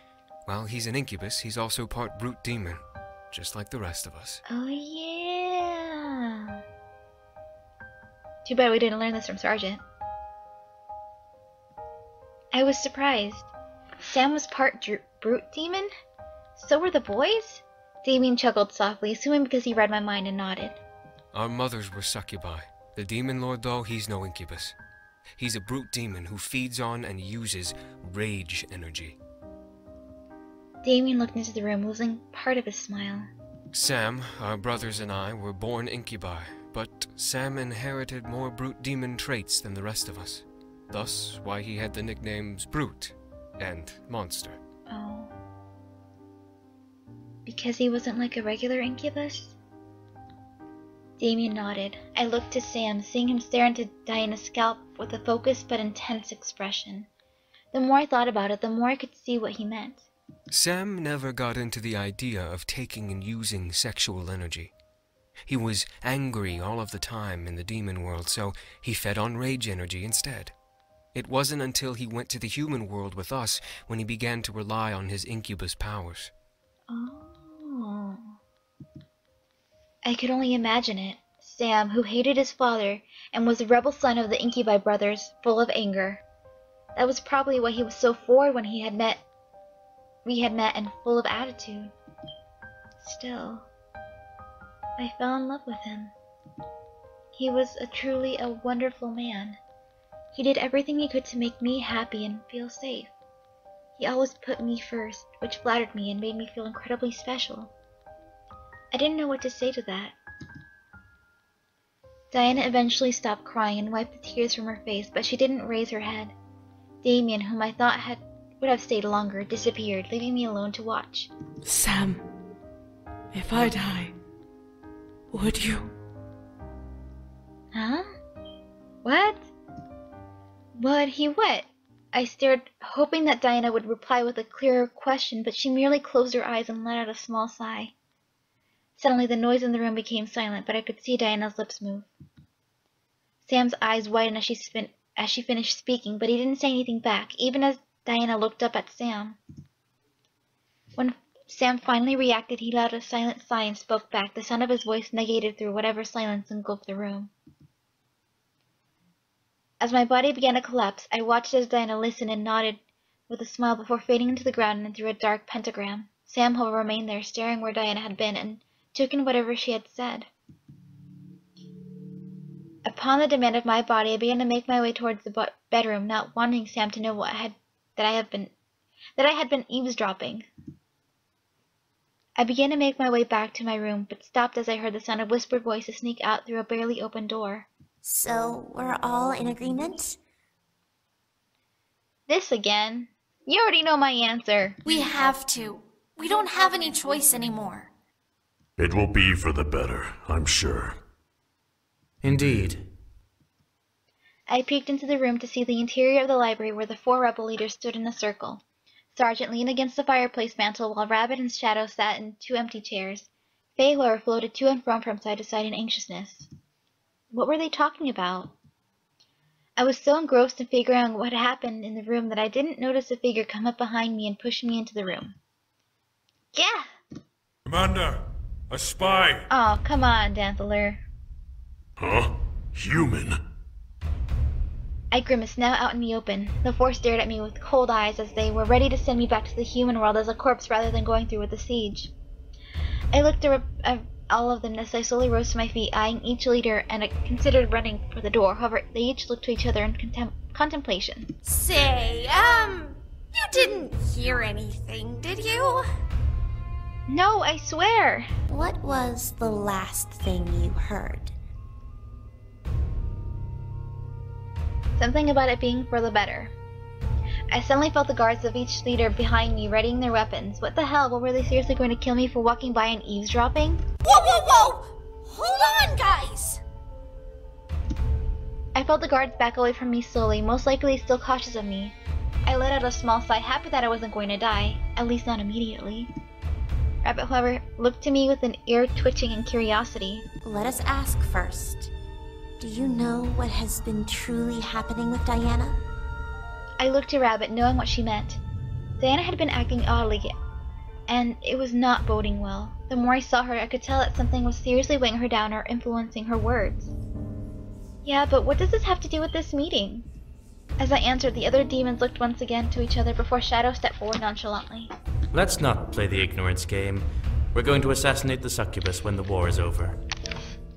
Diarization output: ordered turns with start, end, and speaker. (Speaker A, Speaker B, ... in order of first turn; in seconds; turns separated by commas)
Speaker A: 0.5-4.4, Speaker B: 4.5-6.6, Speaker B: 8.4-9.8, Speaker B: 12.5-13.5, Speaker B: 14.0-15.9, Speaker B: 16.6-20.8, Speaker A: 21.3-24.7, Speaker A: 25.4-29.2, Speaker B: 30.8-33.3, Speaker A: 33.7-44.6, Speaker B: 44.9-45.3, Speaker B: 47.5-49.5, Speaker B: 51.2-57.1, Speaker B: 57.7-60.0, Speaker A: 60.5-64.7, Speaker A: 65.5-70.5, Speaker A: 71.1-76.3, Speaker B: 76.9-78.3, Speaker B: 80.0-86.2, Speaker B: 87.0-89.2, Speaker B: 90.2-91.9, Speaker B: 93.0-93.7, Speaker B: 95.0-96.1, Speaker B: 97.3-99.6, Speaker B: 100.3-103.1, Speaker B: 104.0-107.7, Speaker B: 108.9-110.2, Speaker B: 112.3-116.3, Speaker B: 117.0-121.3, Speaker C: 121.6-122.2, Speaker C: 123.3-124.1, Speaker C: 125.3-125.9, Speaker B: 127.7-128.1, Speaker B: 129.0-129.5, Speaker B: 130.8-137.9, Speaker B: 139.0-142.1, Speaker B: 143.4-149.4, Speaker B: 151.0-157.3, Speaker B: 159.8-170.3, Speaker B: 172.8-178.5, Speaker B: 179.2-180.4, Speaker B: 182.4-187.7, Speaker D: 188.0-190.2, Speaker B: 192.3-194.8, Speaker E: 194.8-197.9, Speaker F: 198.8-201.0, Speaker G: 202.2-202.9, Speaker B: 204.5-208.6, Speaker B: 209.1-216.5, Speaker B: 217.3-218.5, Speaker B: 219.8-225.3, Speaker B: 226.5-226.9, Speaker F: 227.6-229.5, Speaker B: 229.5-231.0, Speaker F: 232.0-233.4, Speaker B: 235.1-242.1, Speaker B: 243.1-251.3, Speaker E: 251.4-255.8, Speaker B: 257.1-258.3, Speaker D: 258.5-261.3, Speaker B: 265.0-266.5, Speaker B: 267.5-273.8, Speaker E: 274.0-276.6, Speaker B: 278.7-286.1, Speaker B: 287.0-290.2, Speaker D: 290.4-291.9, Speaker D: 292.6-295.8, Speaker B: 296.8-298.4, Speaker B: 299.0-300.3, Speaker B: 301.1-306.9, Speaker B: 308.0-310.1, Speaker B: 310.8-314.9, Speaker G: 315.3-320.0